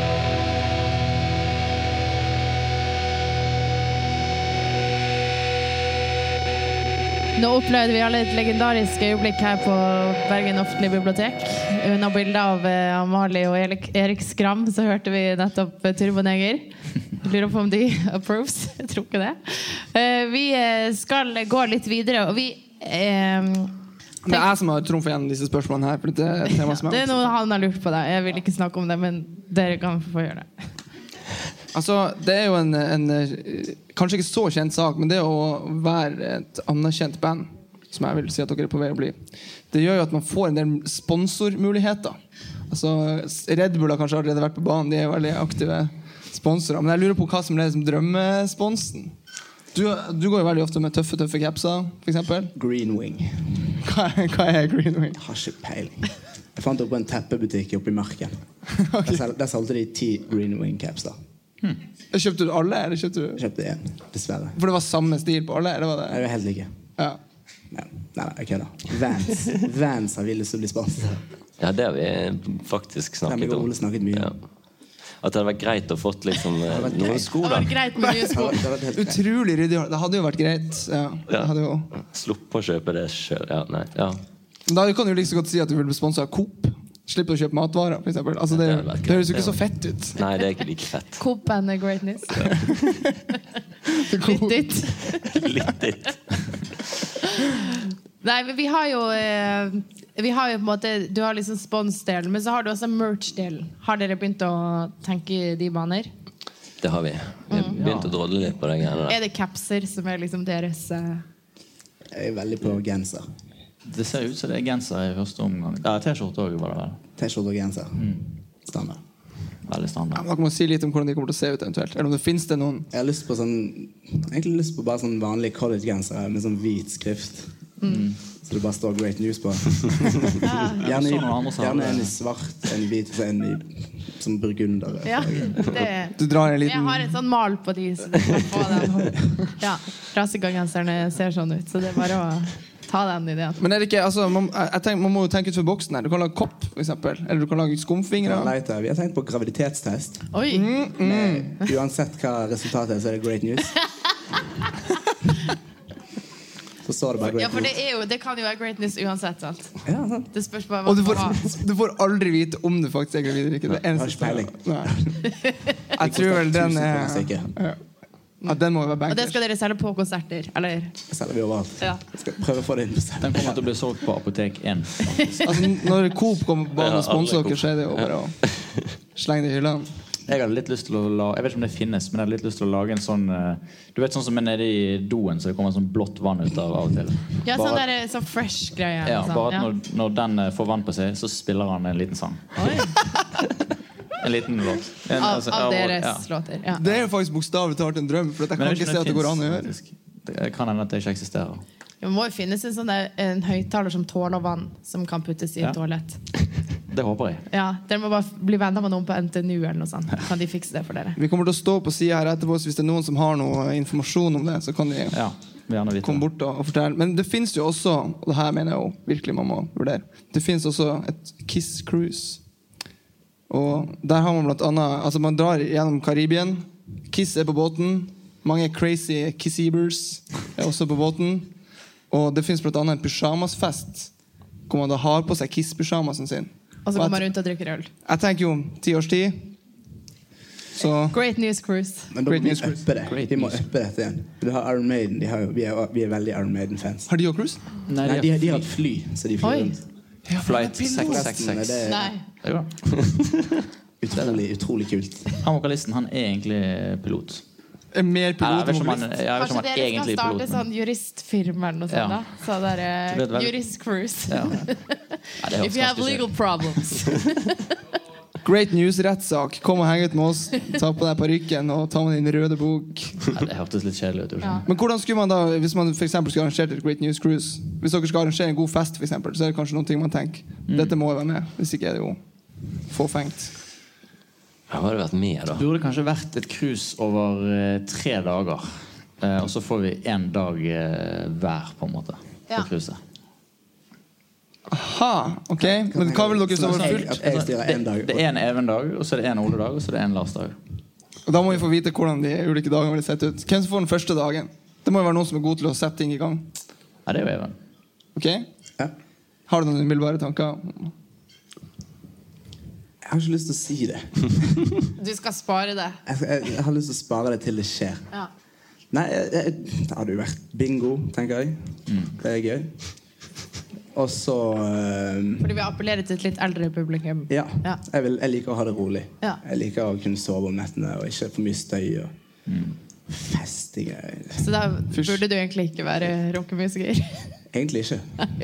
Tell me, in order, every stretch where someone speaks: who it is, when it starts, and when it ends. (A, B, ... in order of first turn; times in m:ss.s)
0:07.4-0:23.8 A
0:24.2-0:27.2 B
0:26.5-0:30.7 A
0:31.7-0:42.2 B
0:42.7-0:49.1 B
0:49.7-0:52.5 B
0:52.5-0:53.7 C
0:53.8-0:55.2 B
0:55.2-0:58.4 C
0:58.8-0:59.2 B
0:59.0-1:01.2 C
1:02.1-1:03.4 B
1:03.4-1:04.6 C
1:04.5-1:06.2 B
1:06.1-1:06.7 C
1:07.7-1:11.2 C
1:11.6-1:14.4 D
1:13.3-1:14.3 C
1:15.2-1:17.7 D
1:16.6-1:17.5 C
1:17.4-1:18.6 A
1:18.3-1:19.2 C
1:18.9-1:21.9 B
1:21.3-1:24.2 D
1:24.7-1:30.2 B
1:28.5-1:29.6 D
1:30.1-1:31.2 D
1:31.2-1:32.6 A
1:33.9-1:34.7 B
1:34.2-1:35.4 A
1:35.2-1:36.6 D
1:37.4-1:46.1 A
1:46.8-1:49.2 D
1:47.5-1:47.8 A
1:47.7-1:48.2 E
1:49.1-1:51.2 A
1:52.1-1:53.2 C
1:53.8-1:57.0 E
1:57.2-1:59.0 C
1:59.6-2:00.2 E
2:00.1-2:02.9 B
2:02.9-2:07.5 C
2:07.8-2:08.1 A
2:07.9-2:08.2 E
2:08.4-2:15.8 C
2:10.4-2:10.8 A
2:10.8-2:12.1 E
2:15.0-2:23.6 A
2:16.2-2:17.2 B
2:23.6-2:28.5 B
2:28.2-2:30.3 C
2:30.3-2:30.7 A
2:30.5-2:31.5 B
2:31.0-2:33.7 C
2:36.8-2:37.7 C
2:37.3-2:39.8 A
2:39.8-2:40.3 C
2:40.3-2:41.4 A
2:40.8-2:45.0 B
2:43.8-2:45.2 C
2:45.3-2:45.6 A
2:45.9-2:47.8 B
2:46.0-2:47.6 C
2:48.4-2:49.4 B
2:48.4-2:51.0 A
2:51.1-2:53.7 C
2:53.2-2:55.6 E
2:55.4-2:58.4 B
2:56.8-2:58.9 D
2:59.1-2:59.9 B
3:00.2-3:07.8 E
3:07.4-3:09.7 A
3:09.0-3:12.9 E
3:12.6-3:13.0 A
3:14.2-3:16.3 E
3:15.2-3:16.8 A
3:16.7-3:19.7 B
3:18.6-3:21.6 E
3:22.0-3:26.2 A
3:26.9-3:27.4 E
3:27.5-3:31.2 A
3:31.2-3:35.2 B
3:35.1-3:36.3 E
3:36.0-3:42.4 B
3:43.5-3:51.5 B
3:52.1-3:54.1 B
3:54.7-3:57.3 B
3:56.8-3:57.9 A
3:58.0-3:59.5 B
4:00.7-4:01.2 B
4:01.1-4:02.1 A
4:02.1-4:07.1 C
4:02.2-4:02.8 B
4:03.0-4:03.6 E
4:07.1-4:07.6 B
4:07.8-4:08.7 E
4:08.0-4:09.8 C
4:09.4-4:09.8 A
4:10.2-4:11.2 B
4:10.4-4:11.6 E
4:10.8-4:11.8 D
4:11.0-4:12.1 C
4:11.8-4:12.2 A
4:12.4-4:12.7 E
4:14.0-4:15.3 C
4:15.4-4:17.4 E
4:17.9-4:19.1 B
4:18.4-4:20.6 E
4:19.3-4:25.0 A
4:21.9-4:22.2 E
4:23.1-4:23.6 E
4:24.3-4:24.8 E
4:25.4-4:26.4 E
4:25.5-4:27.5 A
4:28.4-4:33.3 B
4:33.3-4:34.6 E
4:34.6-4:42.2 B
4:40.7-4:41.0 E
4:42.8-4:43.5 B
4:44.7-4:45.6 D
4:45.5-4:53.0 E
4:54.7-4:57.2 B
4:55.7-4:58.2 C
4:56.6-5:00.6 E
5:01.2-5:06.5 B
5:07.0-5:07.6 E
5:08.1-5:08.4 B
5:09.5-5:10.9 B
5:13.0-5:14.7 C
5:15.0-5:16.0 A
5:16.0-5:18.0 C
5:18.9-5:22.7 C
5:21.9-5:22.1 E
5:23.9-5:25.5 C
5:25.4-5:27.8 A
5:27.3-5:32.1 C
5:32.5-5:32.8 E
5:33.1-5:34.4 C
5:34.4-5:37.3 A
5:34.9-5:35.2 B
5:37.5-5:38.3 C